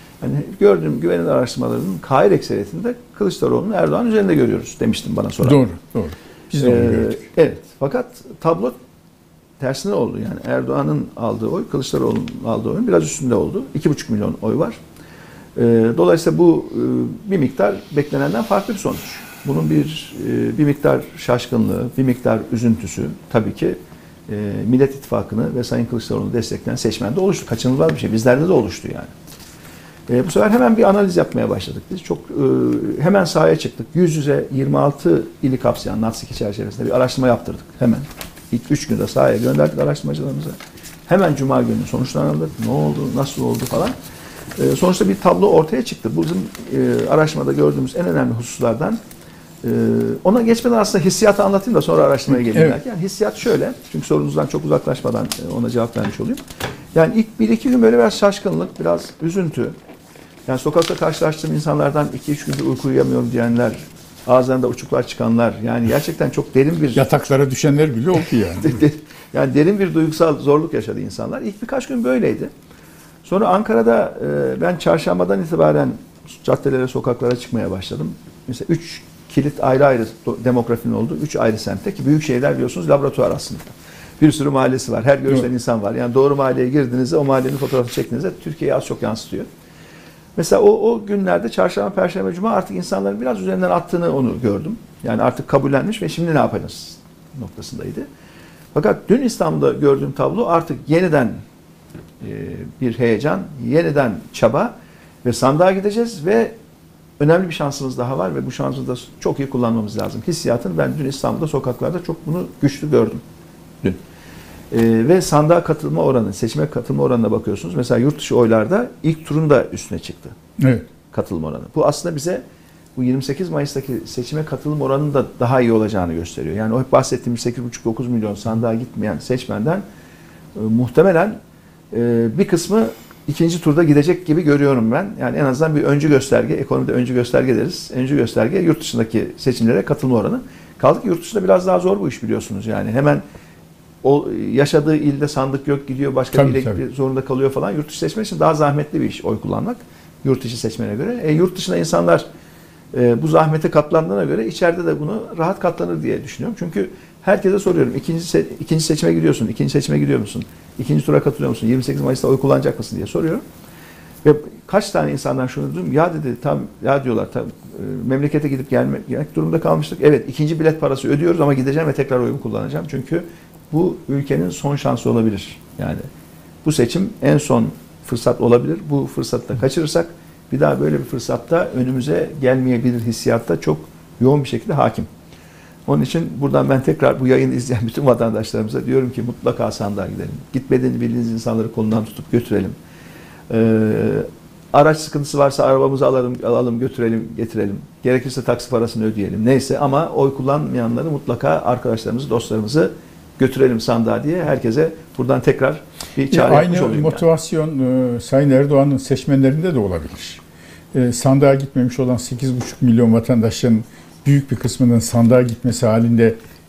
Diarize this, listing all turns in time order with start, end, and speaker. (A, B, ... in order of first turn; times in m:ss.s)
0:00.2-0:05.6 A
0:05.4-0:07.2 B
0:06.6-0:08.8 A
0:09.6-0:14.8 A
0:15.6-0:29.1 A
0:30.1-0:44.0 A
0:44.6-0:49.0 A
0:49.6-0:56.4 A
0:52.3-0:52.8 B
0:56.9-0:59.8 A
1:00.5-1:07.2 A
1:07.0-1:08.8 B
1:08.5-1:12.5 A
1:13.2-1:29.5 A
1:30.4-1:38.1 A
1:38.7-1:41.4 A
1:42.2-1:46.6 A
1:47.2-1:53.2 A
1:54.7-2:00.4 A
2:00.6-2:00.9 B
2:01.1-2:02.4 A
2:03.0-2:09.8 A
2:10.6-2:11.4 A
2:11.9-2:23.2 A
2:24.0-2:32.3 A
2:26.3-2:26.8 B
2:32.9-2:43.4 A
2:44.2-2:56.0 A
2:56.6-3:05.1 A
3:05.9-3:12.8 A
3:13.5-3:27.2 A
3:26.3-3:30.4 B
3:30.9-3:36.4 B